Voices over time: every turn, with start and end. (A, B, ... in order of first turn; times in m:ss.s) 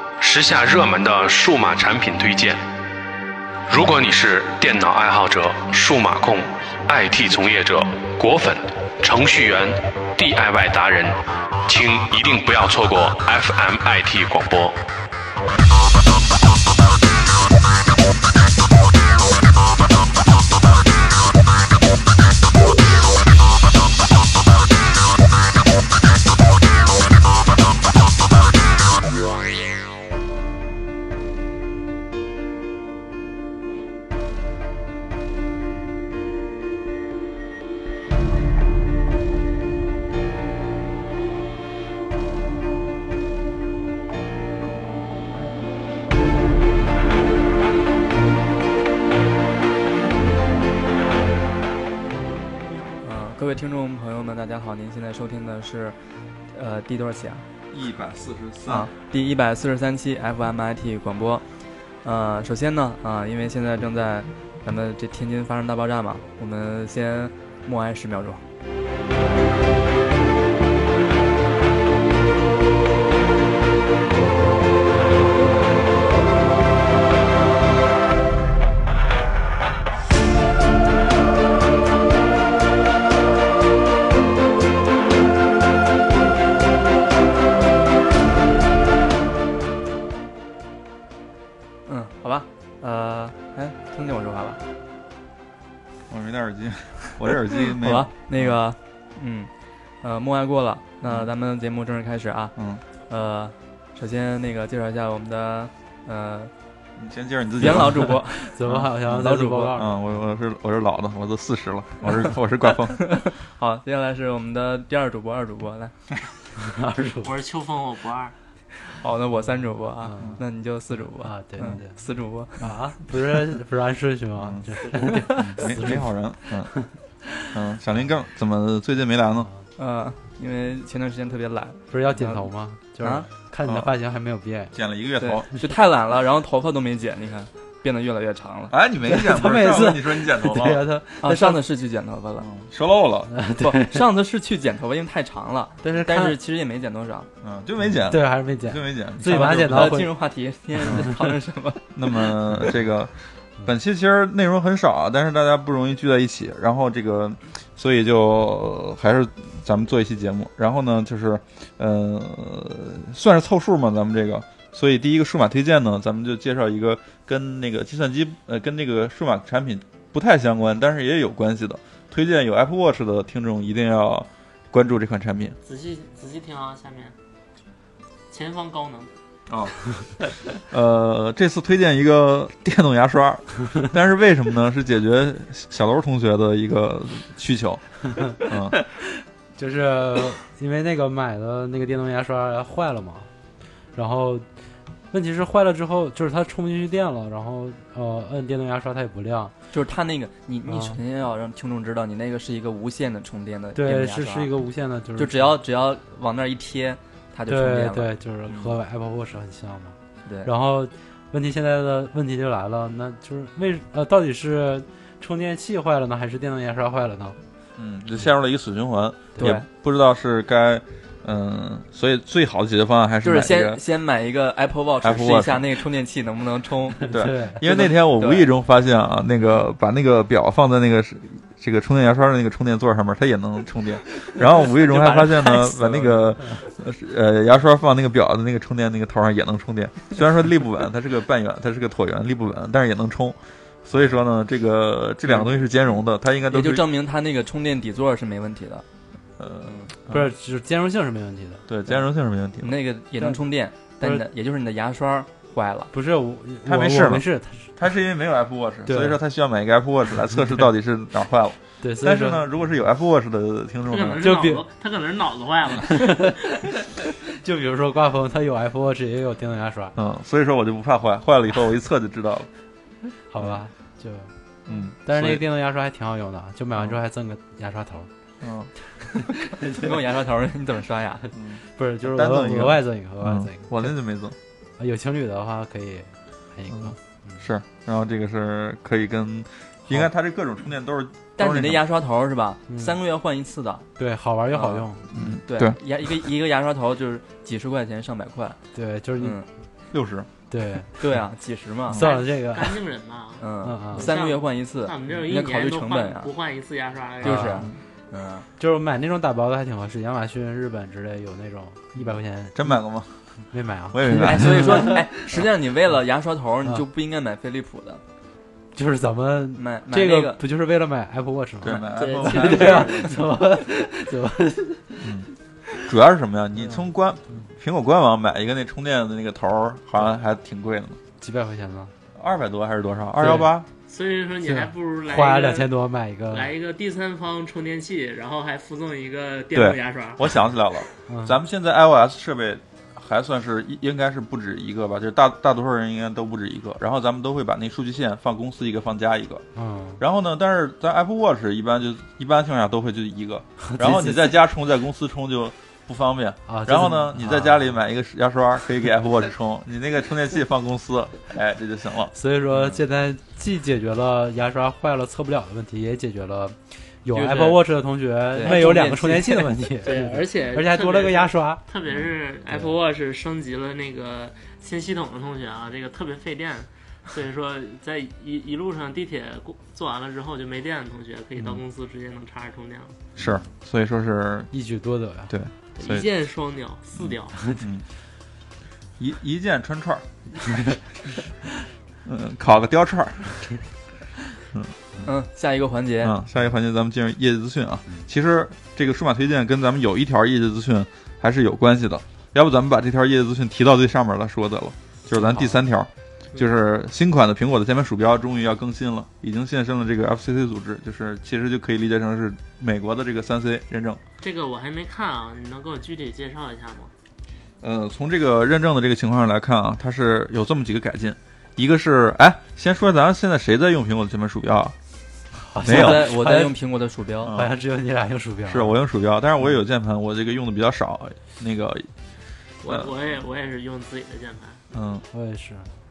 0:00.2-0:02.6 A
0:03.7-0:14.8 A
0:53.0-0:56.0 B
0:56.5-0:57.4 B
0:57.7-0:58.9 C
0:58.7-1:01.4 B
1:02.0-1:08.4 B
1:31.8-1:34.6 B
1:36.1-1:38.6 C
1:37.6-1:39.5 B
1:40.0-1:42.5 B
1:41.0-1:41.3 C
1:42.6-1:42.8 C
1:43.1-1:46.5 B
1:47.0-1:53.1 C
1:47.6-1:48.5 B
1:48.0-1:50.0 D
1:49.0-1:49.7 B
1:52.8-1:55.9 B
1:56.6-1:57.3 D
1:57.2-1:58.3 E
1:58.9-2:02.6 B
2:00.0-2:00.4 D
2:01.2-2:02.0 D
2:02.5-2:06.1 D
2:04.4-2:04.7 C
2:04.9-2:05.8 B
2:05.3-2:06.7 C
2:06.7-2:07.5 D
2:07.5-2:09.5 C
2:09.8-2:12.4 B
2:11.9-2:14.7 D
2:13.0-2:13.3 B
2:13.6-2:13.9 C
2:14.7-2:15.5 C
2:15.2-2:18.7 B
2:18.7-2:20.8 C
2:19.1-2:21.6 D
2:21.2-2:22.5 B
2:22.4-2:23.3 C
2:23.3-2:24.0 D
2:23.6-2:27.3 B
2:25.8-2:26.4 D
2:27.4-2:29.9 C
2:28.0-2:30.1 D
2:29.2-2:32.6 B
2:30.8-2:31.1 C
2:31.9-2:33.1 C
2:33.6-2:55.6 C
2:55.6-2:57.2 E
2:58.3-2:59.1 E
2:59.5-2:59.7 C
3:00.7-3:08.8 C
3:09.6-3:13.3 D
3:13.9-3:14.5 D
3:15.1-3:19.5 D
3:19.7-3:24.5 B
3:20.7-3:21.0 D
3:23.7-3:25.6 D
3:25.2-3:28.7 B
3:27.5-3:37.4 D
3:37.8-3:43.8 C
3:39.4-3:39.6 B
3:43.2-3:48.5 B
3:45.0-3:45.8 C
3:47.1-4:06.8 C
3:47.1-3:47.6 D
3:54.4-3:56.4 B
4:05.2-4:05.7 B
4:06.5-4:08.8 B
4:09.4-4:10.3 C
4:10.1-4:11.6 D
4:11.7-4:12.8 C
4:12.6-4:15.9 B
4:15.9-4:17.8 D
4:16.6-4:17.2 C
4:17.8-4:24.3 C
4:18.9-4:19.2 D
4:21.8-4:22.4 D
4:23.9-4:26.5 E
4:24.2-4:24.6 D
4:25.9-4:26.5 D
4:27.3-4:29.9 D
4:29.9-4:32.5 C
4:33.3-4:34.3 D
4:34.7-4:35.4 C
4:35.0-4:38.1 D
4:38.4-4:38.7 C
4:39.5-4:40.0 D
4:39.6-4:41.3 B
4:41.3-4:44.4 C
4:41.8-4:43.9 D
4:44.8-4:47.4 D
4:46.7-4:51.8 C
4:51.4-4:53.9 B
4:52.7-4:53.0 D
4:54.0-4:55.1 D
4:54.5-4:54.8 B
4:55.1-4:56.2 C
4:55.4-4:58.6 B
4:58.7-4:59.4 D
4:59.2-4:59.4 B
4:59.9-5:00.3 C
5:00.5-5:01.0 D
5:01.0-5:02.1 B
5:01.9-5:02.8 D
5:01.9-5:07.7 E
5:03.4-5:06.3 B
5:03.6-5:04.1 D
5:07.2-5:08.4 B
5:07.2-5:07.6 D
5:08.6-5:12.7 D
5:12.5-5:13.1 C
5:13.5-5:15.0 D
5:13.9-5:15.0 C
5:14.1-5:18.0 B
5:18.7-5:25.0 D
5:19.6-5:20.4 B
5:21.6-5:23.2 C
5:21.9-5:23.1 E
5:25.0-5:25.3 C
5:25.8-5:31.0 C
5:31.2-5:31.9 D
5:32.1-5:33.7 C
5:33.2-5:33.5 D
5:33.9-5:35.7 E
5:34.4-5:36.5 D
5:36.3-5:40.3 E
5:39.5-5:49.4 C
5:41.1-5:41.4 D
5:49.6-5:50.0 D
5:50.0-6:02.8 C
5:53.6-5:54.3 D
5:56.5-5:57.8 D
6:02.1-6:11.6 D
6:07.1-6:07.6 B
6:08.3-6:09.5 B
6:08.4-6:08.7 E
6:09.8-6:23.0 E
6:23.2-6:24.5 C
6:24.5-6:25.3 D
6:25.3-6:26.1 C
6:25.8-6:27.4 E
6:27.0-6:27.8 C
6:29.0-6:30.0 C
6:32.0-6:33.5 C
6:35.0-6:36.2 B
6:36.0-6:54.0 C
6:45.2-6:45.5 B
6:54.2-6:56.9 E
6:57.6-7:04.7 C
7:05.4-7:06.5 D
7:05.6-7:06.2 C
7:05.6-7:07.3 B
7:07.2-7:07.5 C
7:07.3-7:08.8 D
7:08.5-7:11.9 C
7:12.6-7:14.6 E
7:12.6-7:12.9 C
7:14.7-7:15.0 C
7:15.1-7:15.7 D